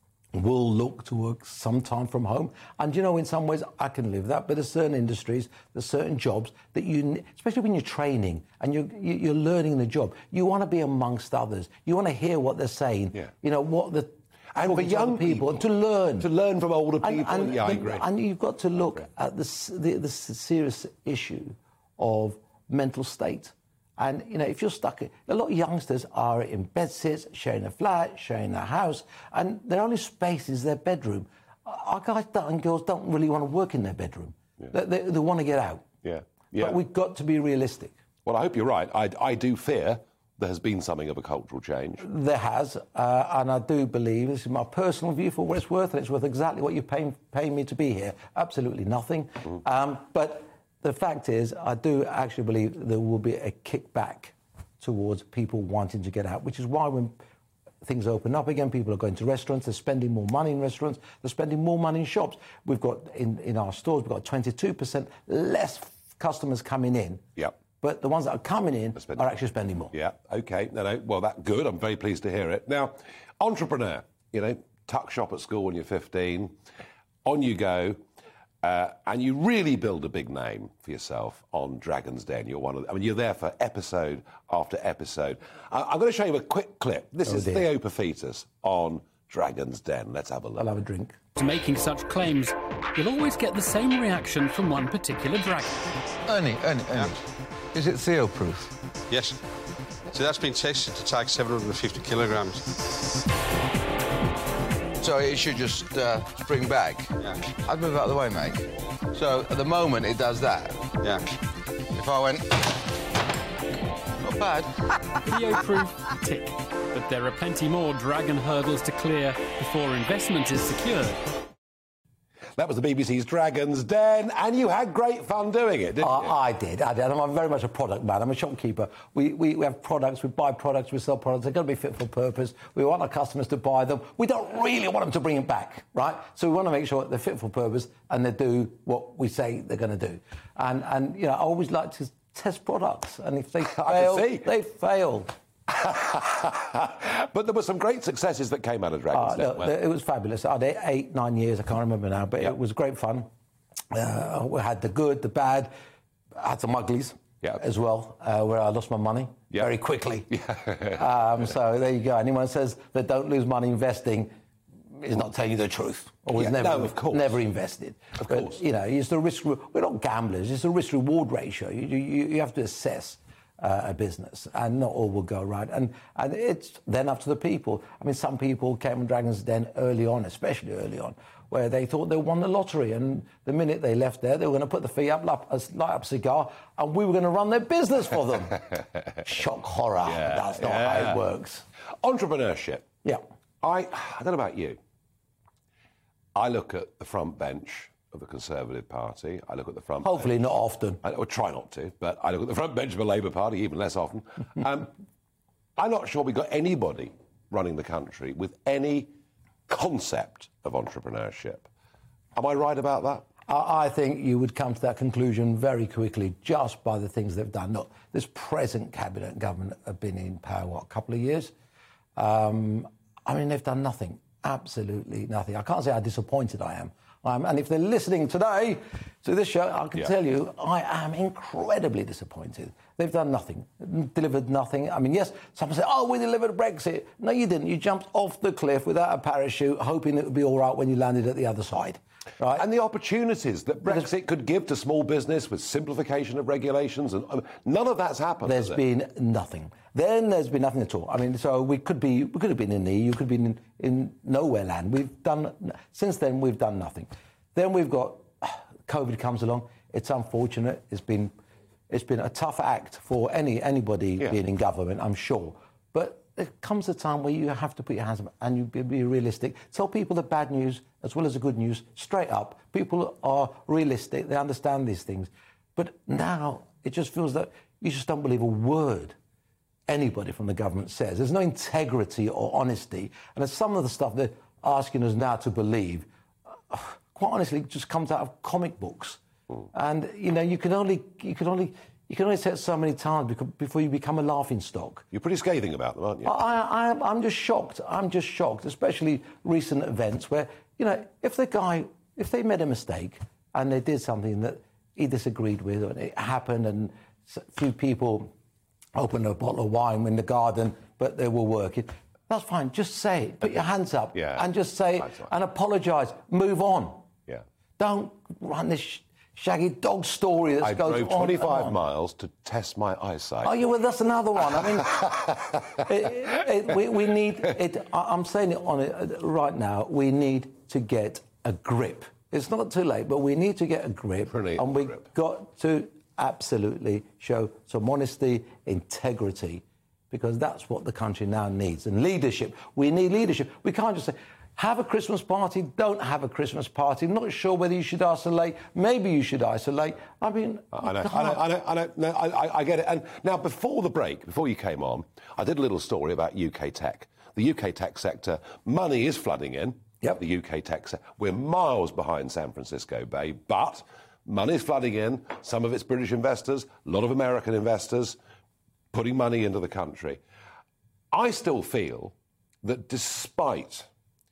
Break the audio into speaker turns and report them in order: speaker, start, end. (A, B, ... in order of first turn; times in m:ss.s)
0:00.3-0:16.3 A
0:14.6-0:15.6 B
0:16.2-0:18.1 B
0:17.0-0:35.9 A
0:36.0-0:36.8 B
0:36.5-0:37.9 A
0:38.2-0:42.1 B
0:42.0-0:57.2 A
0:57.8-1:07.2 A
1:07.8-1:09.9 A
1:09.0-1:09.3 B
1:09.9-1:16.6 B
1:17.2-1:18.0 B
1:18.6-1:30.6 B
1:27.2-1:27.7 A
1:30.6-1:31.2 A
1:31.4-1:35.8 C
1:36.3-1:37.2 D
1:37.7-1:38.8 D
1:39.1-1:39.4 E
1:40.1-1:42.7 E
1:45.0-1:51.0 D
1:51.0-1:51.3 E
1:52.0-1:52.8 D
1:54.2-1:54.8 D
1:55.3-2:01.2 C
2:02.6-2:06.3 B
2:06.0-2:25.3 A
2:23.8-2:24.5 B
2:25.8-2:29.7 B
2:29.1-2:33.3 A
2:33.9-2:35.7 A
2:36.4-2:40.3 A
2:40.3-2:41.0 B
2:40.9-2:44.3 A
2:45.0-3:08.7 A
2:46.4-2:47.4 B
2:48.2-2:48.6 B
3:09.2-3:11.6 A
3:10.1-3:11.2 B
3:12.0-3:12.9 B
3:13.6-3:14.8 B
3:16.4-3:20.3 B
3:20.0-3:21.0 A
3:21.0-3:24.9 B
3:25.8-3:29.1 B
3:29.7-3:31.7 B
3:32.4-3:33.3 B
3:33.5-3:41.5 A
3:42.2-4:02.7 A
4:02.5-4:08.8 B
4:08.4-4:21.3 A
4:21.9-4:39.2 A
4:39.9-4:46.1 A
4:46.7-4:49.2 A
4:49.7-4:55.1 A
4:55.1-4:56.3 B
4:56.2-5:08.3 A
5:09.0-5:17.1 A
5:14.2-5:14.5 B
5:15.0-5:15.3 B
5:17.8-5:21.8 A
5:20.6-5:23.5 B
5:23.4-5:25.1 A
5:25.8-5:51.4 A
5:34.3-5:35.0 B
5:50.8-6:08.2 B
6:08.9-6:10.2 B
6:11.1-6:13.9 B